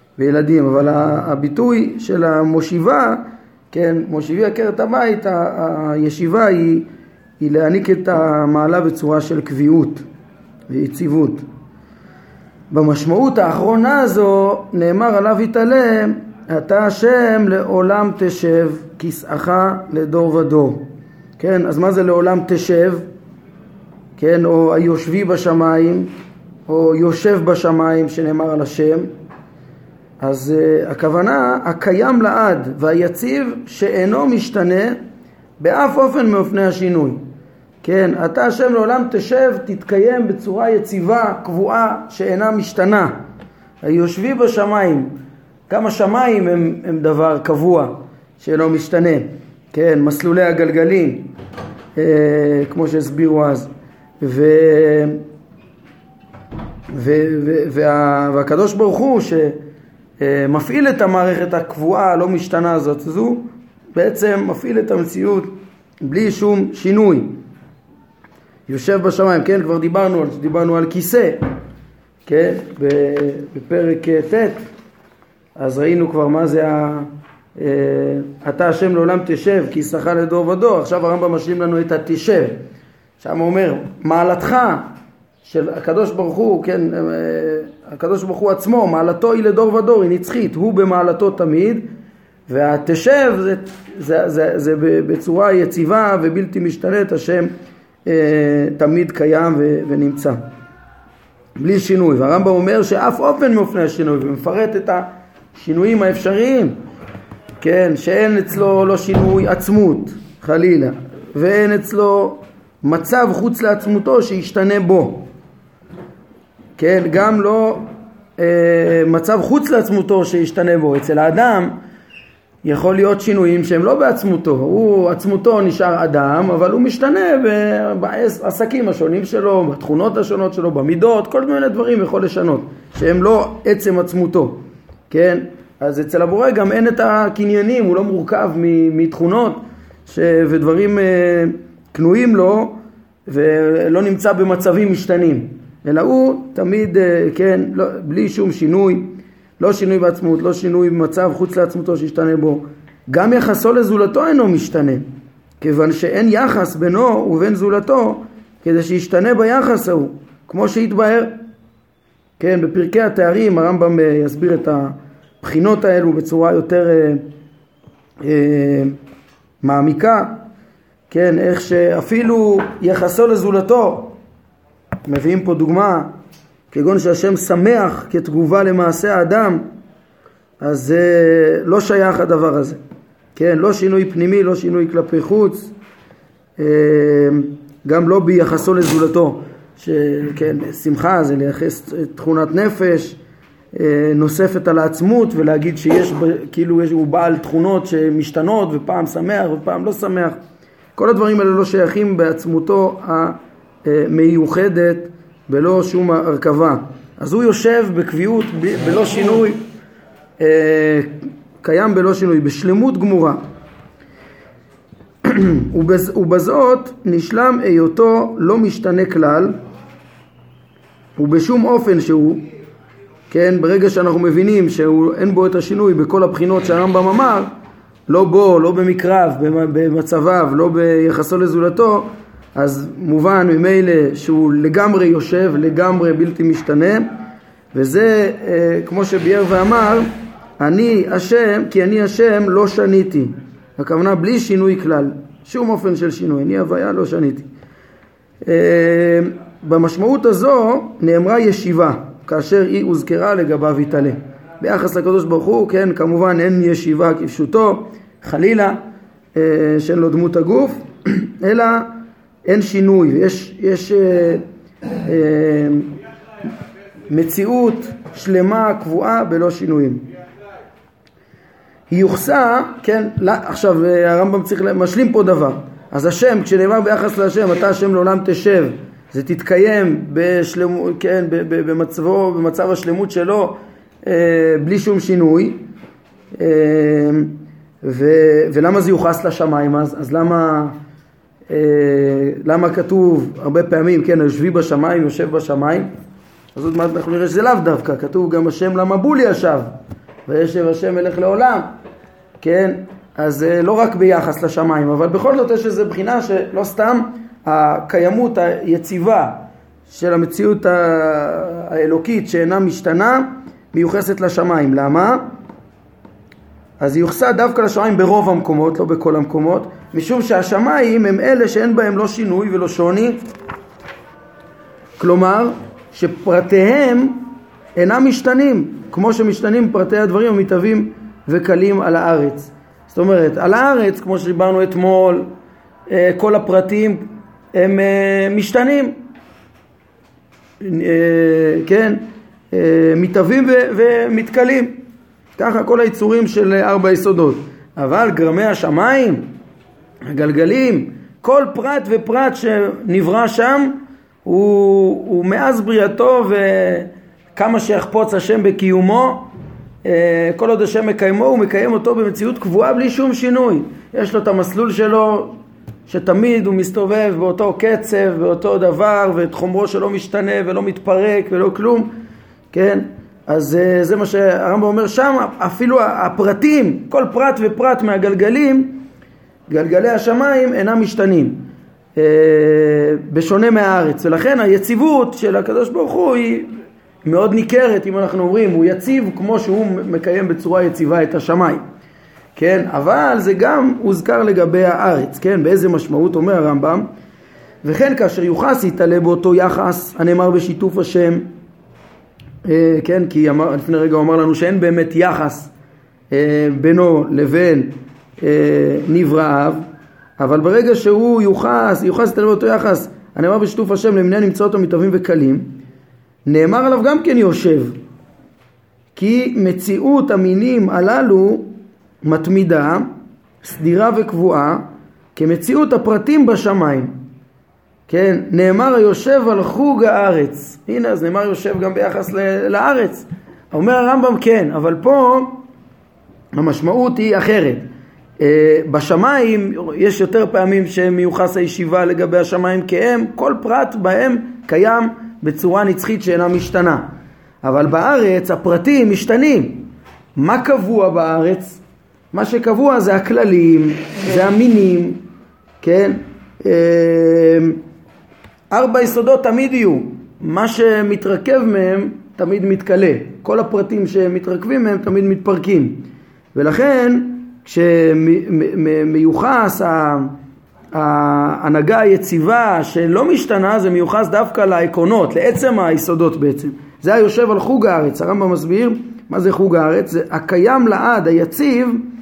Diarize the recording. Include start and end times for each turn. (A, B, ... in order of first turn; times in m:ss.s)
0:00.2-0:06.9 A
0:07.4-0:10.0 A
0:10.7-0:11.4 A
0:12.7-0:20.8 A
0:21.4-0:23.0 A
0:24.2-0:26.1 A
0:26.7-0:29.1 A
0:30.2-0:35.0 A
0:35.6-0:37.2 A
0:37.8-0:43.2 A
0:43.8-0:45.1 A
0:45.7-0:51.3 A
0:52.0-0:53.7 A
0:54.2-0:55.2 A
0:56.9-0:59.6 A
1:00.2-1:07.4 A
1:08.7-1:11.4 A
1:12.2-1:14.6 A
1:15.6-1:22.6 A
1:23.2-1:24.9 A
1:25.4-1:31.9 A
1:32.5-1:37.5 A
1:38.0-1:40.4 A
1:41.6-1:46.8 A
1:47.6-1:55.3 A
1:56.8-1:57.8 A
1:58.4-2:01.8 A
2:02.6-2:35.0 A
2:35.6-2:41.3 A
2:42.4-2:47.2 A
2:48.2-2:49.0 A
2:49.6-2:50.4 A
2:51.1-2:54.2 A
2:55.0-2:56.1 A
2:56.7-2:59.6 A
3:00.6-3:02.8 A
3:03.4-3:05.7 A
3:06.6-3:13.2 A
3:13.7-3:20.4 A
3:21.0-3:29.6 A
3:30.4-3:33.4 A
3:35.2-3:39.6 A
3:41.2-3:42.4 A
3:43.3-3:47.5 A
3:48.1-3:57.1 A
3:57.7-4:07.5 A
4:08.4-4:18.8 A
4:19.3-4:21.9 A
4:22.4-4:24.4 A
4:25.0-4:25.9 A
4:27.1-4:30.0 A
4:31.9-4:45.6 A
4:46.3-4:50.8 A
4:51.5-4:55.9 A
4:56.5-4:59.7 A
5:00.2-5:01.7 A
5:02.4-5:15.2 A
5:16.8-5:23.2 A
5:25.0-5:35.3 A
5:35.9-5:39.0 A
5:40.6-5:44.8 A
5:45.4-5:49.3 A
5:50.1-5:59.3 A
5:59.8-6:11.9 A
6:12.5-6:18.8 A
6:19.5-6:26.5 A
6:27.0-6:31.6 A
6:32.4-6:36.9 A
6:37.6-6:41.3 A
6:42.4-6:45.5 A
6:46.1-6:49.6 A
6:50.2-6:55.6 A
6:56.2-6:57.8 A
6:58.9-7:02.9 A
7:03.4-7:07.0 A
7:07.9-7:15.4 A
7:16.3-7:17.7 A
7:18.2-7:26.9 A
7:27.4-7:31.6 A
7:32.1-7:35.0 A
7:35.6-7:37.6 A
7:38.5-7:50.1 A
7:50.7-8:01.8 A